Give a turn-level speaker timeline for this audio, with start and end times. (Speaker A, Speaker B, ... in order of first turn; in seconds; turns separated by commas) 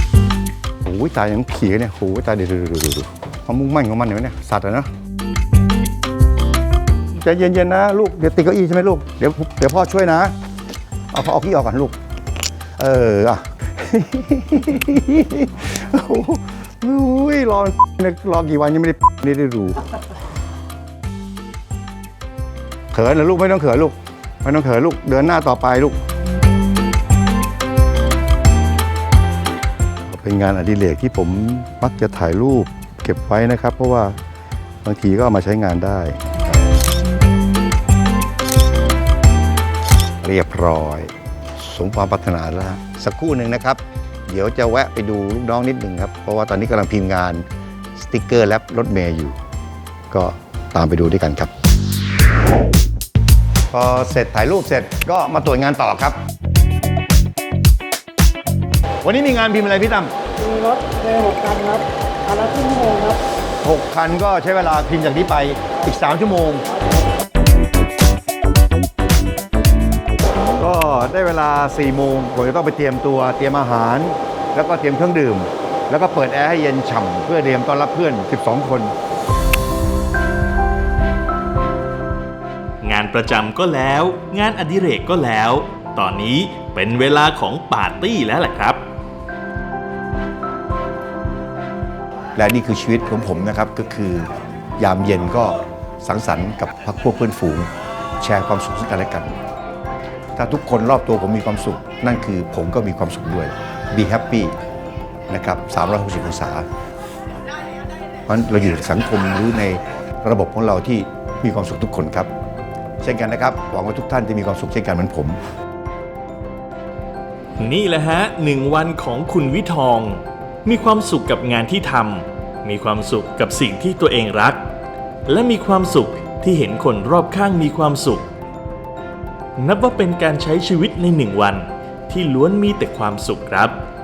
Speaker A: 0.8-4.9, Speaker A: 7.1-10.3, Speaker A: 11.1-11.9, Speaker A: 12.8-19.8, Speaker A: 22.9-26.0, Speaker A: 30.1-34.2, Speaker A: 34.8-36.2, Speaker A: 40.2-49.4, Speaker A: 50.1-51.5, Speaker A: 53.7-56.2, Speaker A: 59.0-60.1, Speaker B: 60.4-63.2, Speaker A: 63.6-66.6, Speaker A: 70.5-78.9, Speaker C: 82.8-88.8, Speaker A: 92.3-99.3, Speaker A: 100.3-104.5, Speaker A: 105.3-106.7, Speaker A: 108.2-112.3, Speaker A: 113.0-115.4, Speaker C: 117.6-124.6, Speaker C: 125.2-128.3, Speaker C: 129.6-133.8